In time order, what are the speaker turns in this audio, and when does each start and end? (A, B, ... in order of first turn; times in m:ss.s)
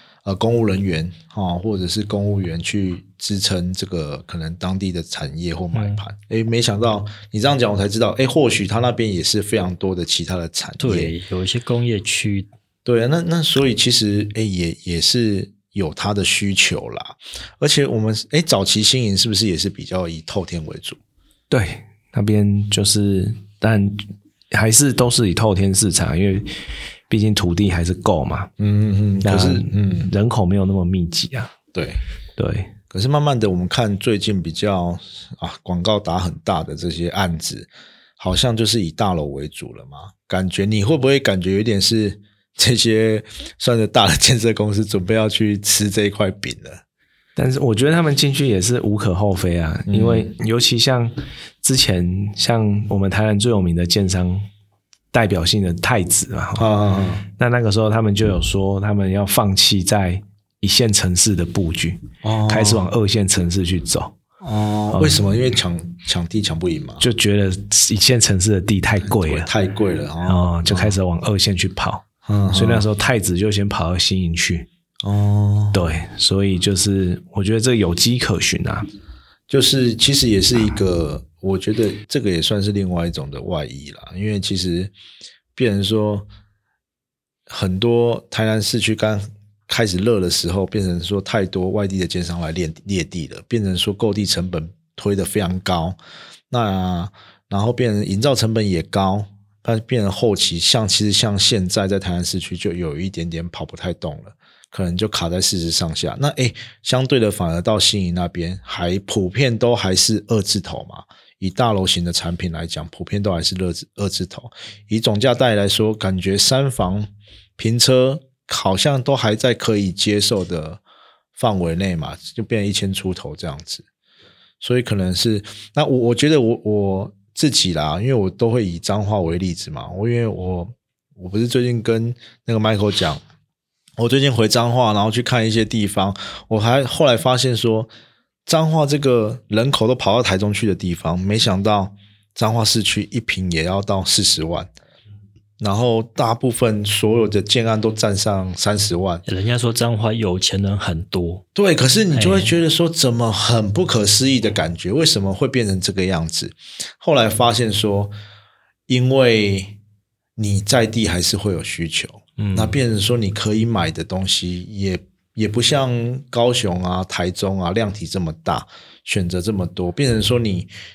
0:00.2-0:11.1 A
0:05.7-0:06.0 B
0:10.8-0:12.5 B
0:12.8-0:21.0 A
0:21.5-0:26.5 C
0:27.1-0:28.5 C
0:28.6-0:30.1 A
0:29.2-0:31.5 C
0:31.7-0:32.0 A
0:32.4-0:32.7 C
0:32.9-0:46.8 A
0:47.4-0:54.5 C
0:49.9-0:50.3 A
0:55.1-0:56.7 C
0:56.6-0:57.2 A
0:57.4-1:04.1 C
1:02.2-1:02.8 A
1:04.4-1:07.0 A
1:04.9-1:05.2 C
1:07.0-1:09.5 C
1:09.0-1:11.0 A
1:10.2-1:14.7 C
1:12.2-1:12.9 A
1:15.0-1:15.8 A
1:15.7-1:18.9 C
1:19.5-1:24.9 A
1:25.5-1:26.3 A
1:27.5-1:36.0 A
1:36.5-2:00.8 A
2:01.4-2:03.8 A
2:04.6-2:13.2 A
2:14.0-2:17.9 A
2:18.4-2:24.7 A
2:25.6-2:29.2 A
2:29.2-2:31.4 B
2:31.5-2:38.1 A
2:32.1-2:32.5 B
2:38.9-2:39.8 A
2:40.4-2:50.7 A
2:42.4-2:42.8 B